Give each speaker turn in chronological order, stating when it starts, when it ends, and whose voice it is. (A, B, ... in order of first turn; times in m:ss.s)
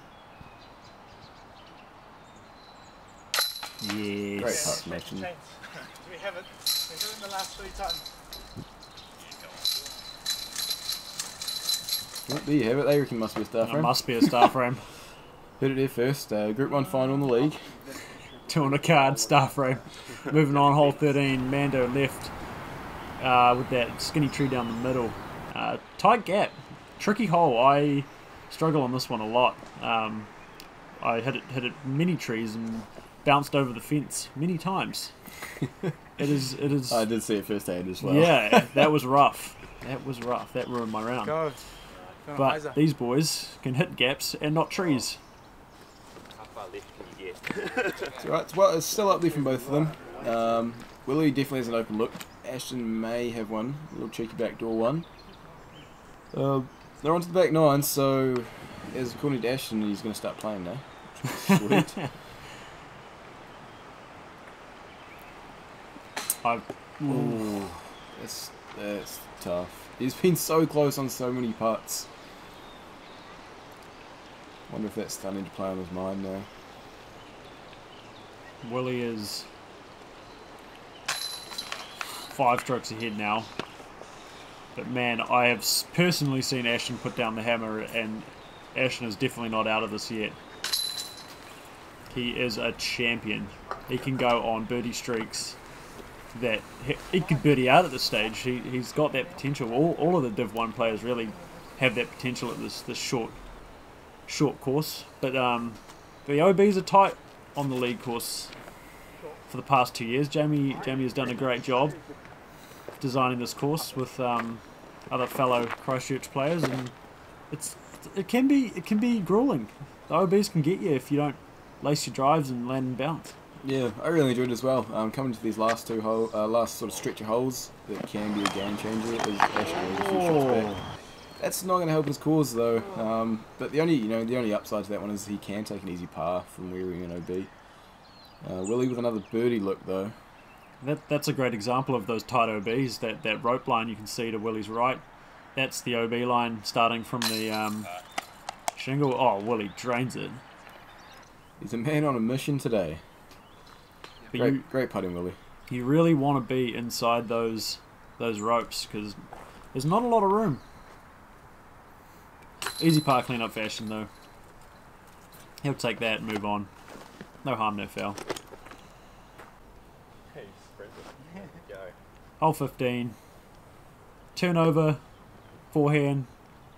0:03.8-0:04.8 A
0:04.4-0:05.3 B
0:04.4-0:08.1 C
0:09.2-0:09.6 D
0:12.3-0:14.5 B
0:13.6-0:14.9 A
0:15.6-0:17.7 B
0:17.8-0:21.1 D
0:18.5-0:22.3 A
0:23.2-0:30.3 A
0:31.0-0:35.1 A
0:35.6-0:36.0 B
0:36.2-0:37.1 A
0:36.9-0:38.9 B
0:38.0-0:41.5 A
0:41.2-0:41.6 C
0:41.9-0:42.2 D
0:42.2-0:42.8 C
0:42.3-0:45.2 A
0:46.3-0:48.2 D
0:48.2-0:55.1 B
0:49.2-0:50.6 D
0:56.3-1:02.0 B
1:01.7-1:02.0 A
1:06.4-1:07.8 A
1:07.1-1:12.1 B
1:14.7-1:16.5 B
1:18.6-1:19.5 A
1:22.3-1:23.5 A
1:24.8-1:30.4 A
1:32.1-1:35.6 A
1:36.3-1:43.4 A
1:37.2-1:37.7 C
1:39.0-1:39.6 C
1:40.8-1:41.8 C
1:44.3-1:48.5 A
1:49.1-1:49.4 C
1:49.5-1:52.0 A
1:50.7-1:52.0 D
1:53.0-1:56.9 A
1:57.5-2:03.3 A
2:03.6-2:10.7 B
2:09.9-2:10.9 A
2:11.4-2:17.5 B
2:18.4-2:20.2 B
2:20.8-2:25.0 A
2:25.6-2:27.9 A
2:28.8-2:30.4 A
2:31.6-2:33.0 B
2:34.3-2:34.6 A
2:34.3-2:35.4 B
2:35.7-2:39.2 A
2:39.7-2:40.6 A
2:42.8-2:44.1 A
2:45.6-2:46.7 A
2:47.4-2:48.2 A
2:50.3-2:52.0 D
2:52.4-2:53.2 A
2:54.4-2:55.0 A
2:55.7-2:56.3 A